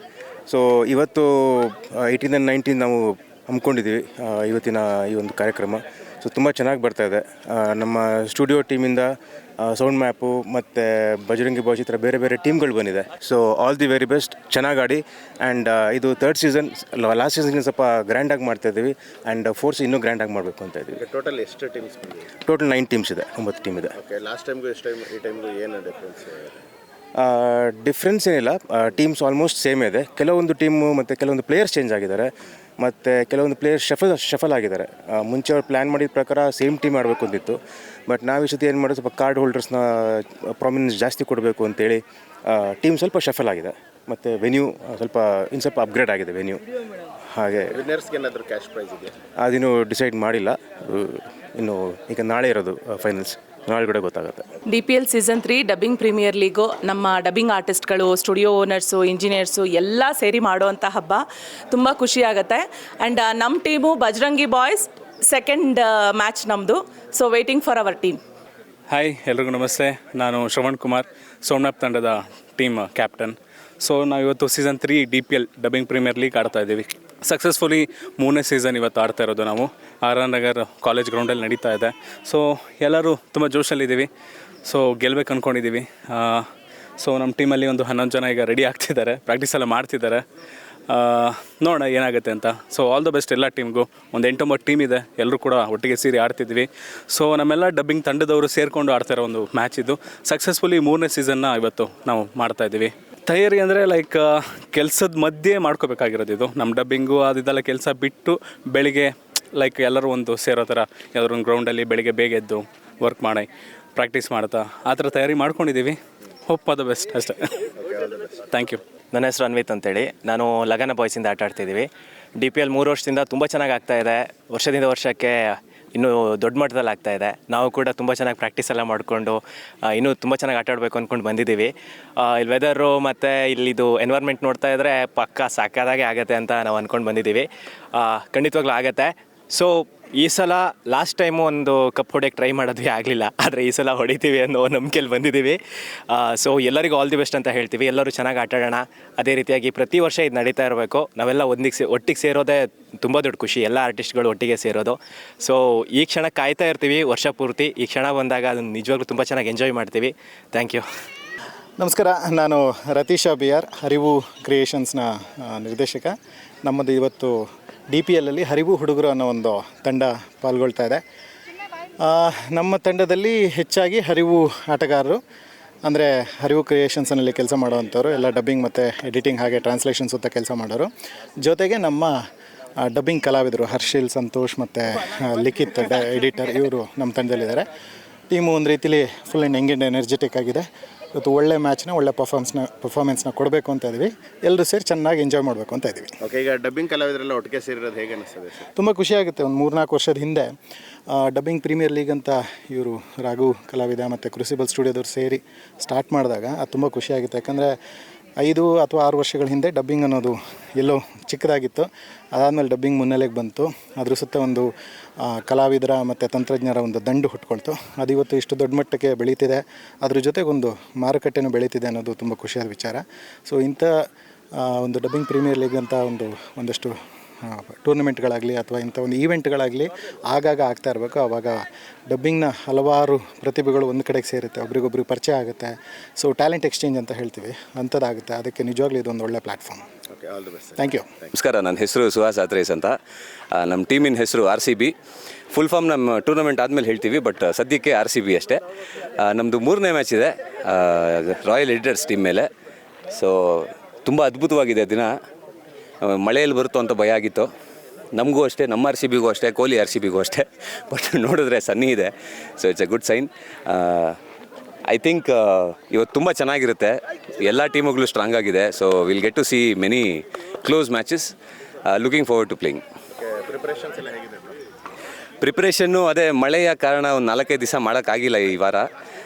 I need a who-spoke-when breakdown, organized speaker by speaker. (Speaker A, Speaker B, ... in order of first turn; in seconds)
Speaker A: 0.5-21.0, 22.3-23.9, 27.2-46.6, 47.3-47.8, 49.4-54.5
Speaker B: 20.9-22.3, 23.9-26.6, 47.6-49.1, 117.8-118.5, 196.2-198.6, 240.1-240.8, 273.2-274.5
Speaker C: 54.6-68.2
Speaker D: 68.9-84.1, 84.7-86.4, 87.0-90.2, 90.9-117.7, 118.5-118.8
Speaker E: 119.1-121.9, 122.4-145.6, 146.1-160.8
Speaker F: 161.8-167.3, 167.9-171.0, 172.0-175.2, 175.8-180.9, 181.4-182.1, 182.8-187.7, 188.3-190.6, 191.1-196.2, 198.7-200.5, 201.1-207.7, 208.4-214.7, 215.2-223.9, 224.6-239.8, 240.8-241.1
Speaker G: 241.3-242.9, 243.5-244.9, 245.5-248.6, 249.2-252.5, 253.1-255.1, 256.0-257.5, 258.1-264.2, 264.9-271.3, 271.9-272.8, 275.4-278.9